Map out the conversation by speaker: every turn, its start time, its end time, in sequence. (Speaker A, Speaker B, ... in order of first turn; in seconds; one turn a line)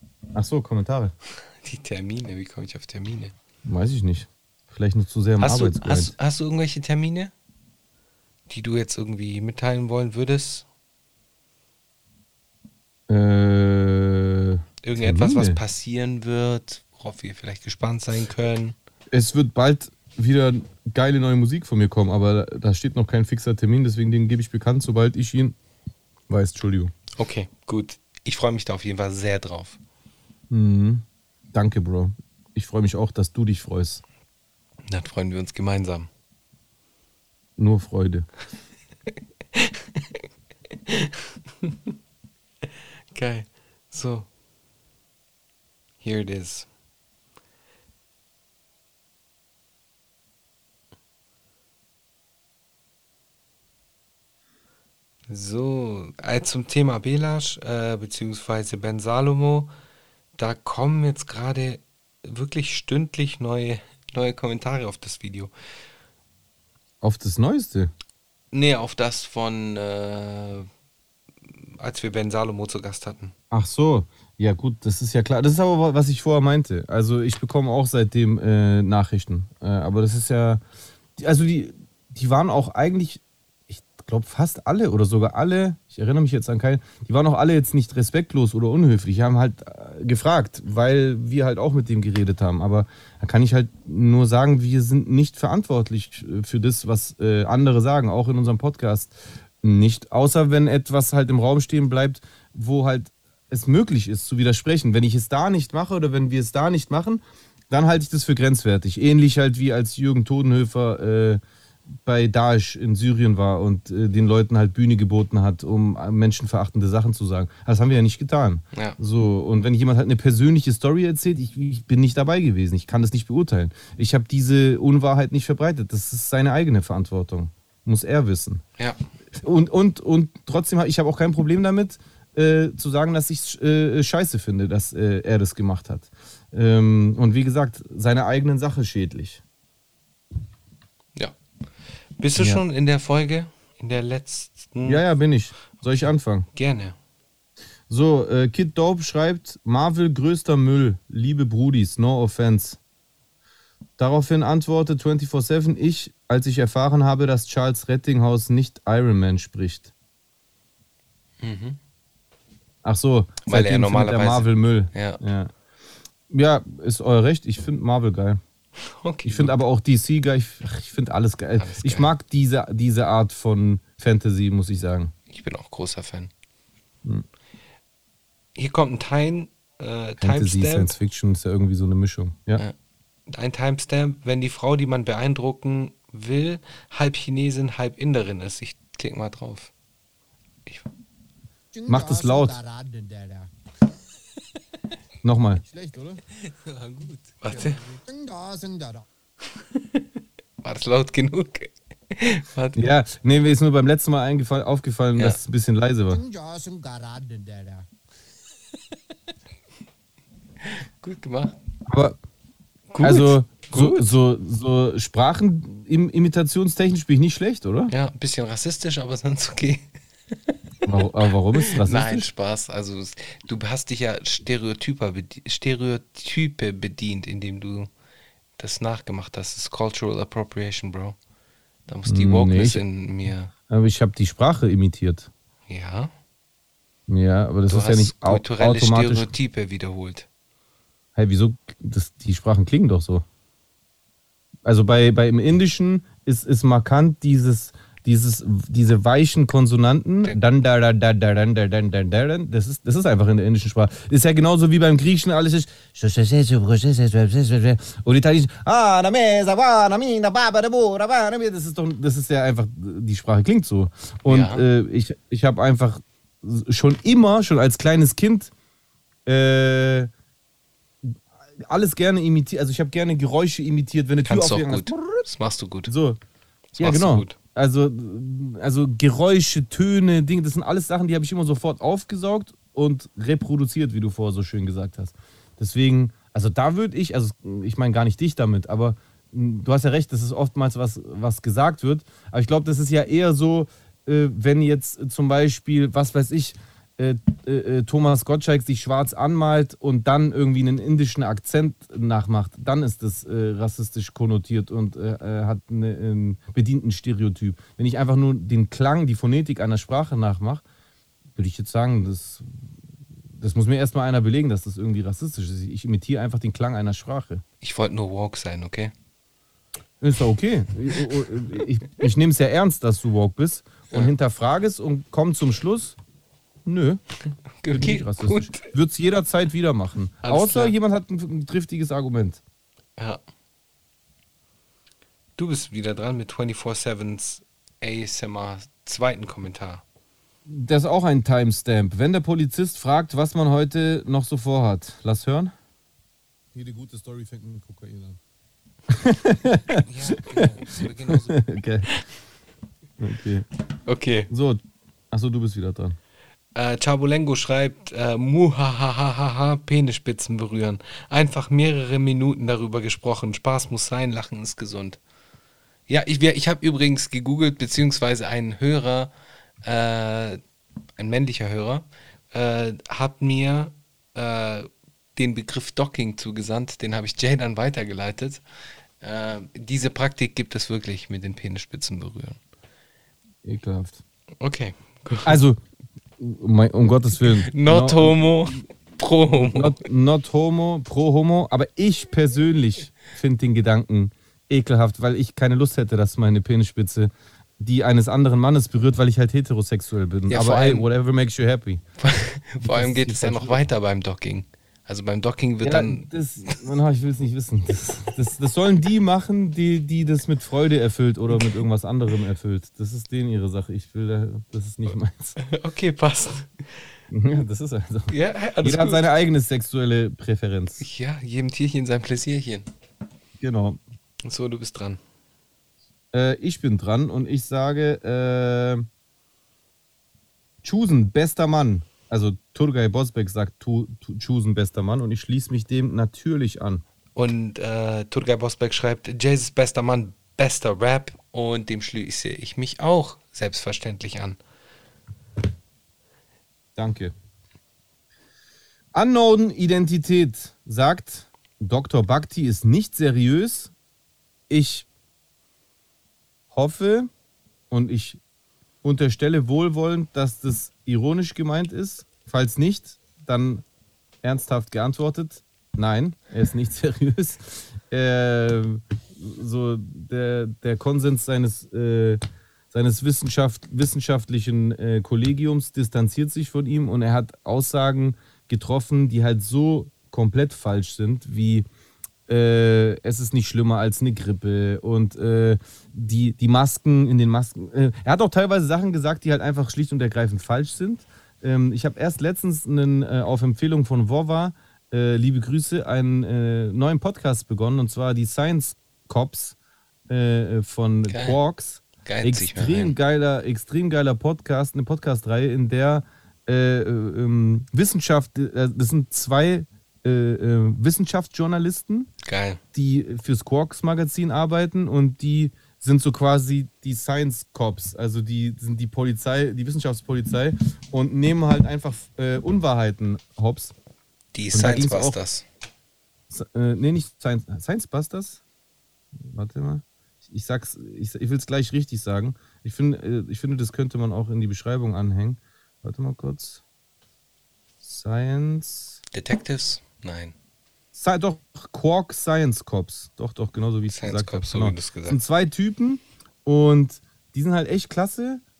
Speaker A: 0.3-1.1
Speaker B: 1.6-3.3
Speaker A: 3.6-6.1
Speaker B: 5.4-7.3
Speaker B: 8.5-10.7
Speaker A: 13.1-15.6
Speaker B: 14.8-18.8
Speaker A: 19.1-25.6
Speaker A: 26.3-26.9
Speaker B: 27.2-29.8
Speaker A: 30.5-34.0
Speaker B: 34.9-36.1
Speaker A: 37.6-38.3
Speaker B: 39.5-41.9
Speaker B: 43.1-44.3
Speaker B: 46.0-46.7
Speaker B: 55.3-59.7
Speaker B: 60.4-65.5
Speaker A: 67.0-67.9
Speaker B: 68.5-70.7
Speaker B: 71.5-73.3
Speaker A: 73.5-80.6
Speaker A: 81.2-111.4
Speaker A: 112.0-128.6
Speaker B: 118.7-119.0
Speaker A: 129.4-139.4
Speaker B: 142.2-145.0
Speaker A: 142.4-142.6
Speaker A: 144.8-146.5
Speaker B: 146.6-147.0
Speaker A: 147.9-152.8
Speaker A: 154.0-159.9
Speaker B: 161.4-161.8
Speaker A: 162.8-165.5
Speaker B: 163.5-165.2
Speaker A: 166.3-168.4
Speaker B: 168.8-169.6
Speaker A: 169.2-175.1
Speaker B: 171.6-172.1
Speaker B: 175.3-176.3
Speaker B: 178.6-180.9
Speaker A: 180.2-182.6
Speaker B: 183.3-189.7
Speaker C: 191.7-193.5
Speaker A: 191.9-192.6
Speaker A: 195.2-195.6
Speaker C: 195.6-196.2
Speaker B: 196.4-197.8
Speaker C: 197.5-199.1
Speaker B: 199.6-200.1
Speaker B: 200.6-202.9
Speaker A: 202.8-206.2
Speaker C: 206.1-207.9
Speaker B: 210.6-211.6
Speaker A: 211.9-212.2
Speaker B: 212.9-214.1
Speaker A: 213.0-217.9
Speaker B: 217.9-220.6
Speaker A: 220.8-222.3
Speaker B: 221.6-227.9
Speaker B: 228.6-231.2
Speaker B: 231.9-233.5
Speaker A: 232.1-232.8
Speaker A: 233.7-235.3
Speaker B: 235.7-236.1
Speaker A: 237.1-239.3
Speaker B: 237.7-240.3
Speaker A: 241.2-243.2
Speaker A: 244.7-268.5
Speaker B: 264.3-264.6
Speaker A: 269.3-270.1
Speaker A: 271.7-275.3
Speaker B: 274.2-275.9
Speaker A: 275.9-276.2
Speaker B: 276.8-277.4
Speaker A: 276.8-310.6
Speaker A: 311.4-312.4
Speaker A: 313.4-317.4
Speaker B: 317.6-318.9
Speaker A: 320.0-325.9
Speaker A: 326.6-327.0
Speaker B: 327.6-328.7
Speaker A: 327.7-332.4
Speaker B: 330.2-330.8
Speaker B: 335.4-339.8
Speaker A: 340.5-345.5
Speaker A: 346.6-348.2
Speaker A: 348.9-351.9
Speaker B: 349.7-352.0
Speaker A: 353.0-353.5
Speaker B: 353.9-354.3
Speaker A: 354.3-356.0
Speaker B: 356.6-365.0
Speaker B: 365.9-369.1
Speaker B: 369.6-370.4
Speaker B: 371.0-378.4
Speaker B: 379.0-382.4
Speaker A: 383.4-384.0
Speaker B: 384.4-385.4
Speaker A: 385.2-385.6
Speaker A: 386.2-388.6
Speaker B: 387.2-389.8
Speaker A: 389.4-401.8
Speaker B: 400.3-400.9
Speaker B: 402.0-406.1
Speaker A: 402.6-403.6
Speaker A: 405.6-415.4
Speaker B: 415.4-416.7
Speaker A: 417.1-420.9
Speaker B: 418.1-419.1
Speaker B: 420.8-422.7
Speaker A: 423.4-423.8
Speaker B: 424.2-425.0
Speaker A: 426.1-428.9
Speaker A: 430.6-436.8
Speaker B: 437.2-444.4
Speaker A: 446.8-447.1
Speaker A: 448.9-453.7
Speaker A: 454.5-454.9
Speaker A: 456.5-457.1
Speaker A: 457.7-458.2
Speaker A: 458.8-463.6
Speaker A: 464.2-472.2
Speaker A: 472.7-481.7
Speaker A: 482.3-499.6
Speaker A: 500.1-512.1
Speaker B: 501.1-501.4
Speaker B: 502.1-502.9
Speaker B: 512.2-512.6
Speaker A: 512.7-523.8
Speaker B: 524.3-525.5
Speaker A: 524.5-525.2
Speaker A: 526.3-528.4
Speaker A: 529.2-536.6
Speaker A: 537.8-539.0
Speaker B: 539.1-540.3
Speaker A: 541.0-548.4
Speaker B: 543.9-545.2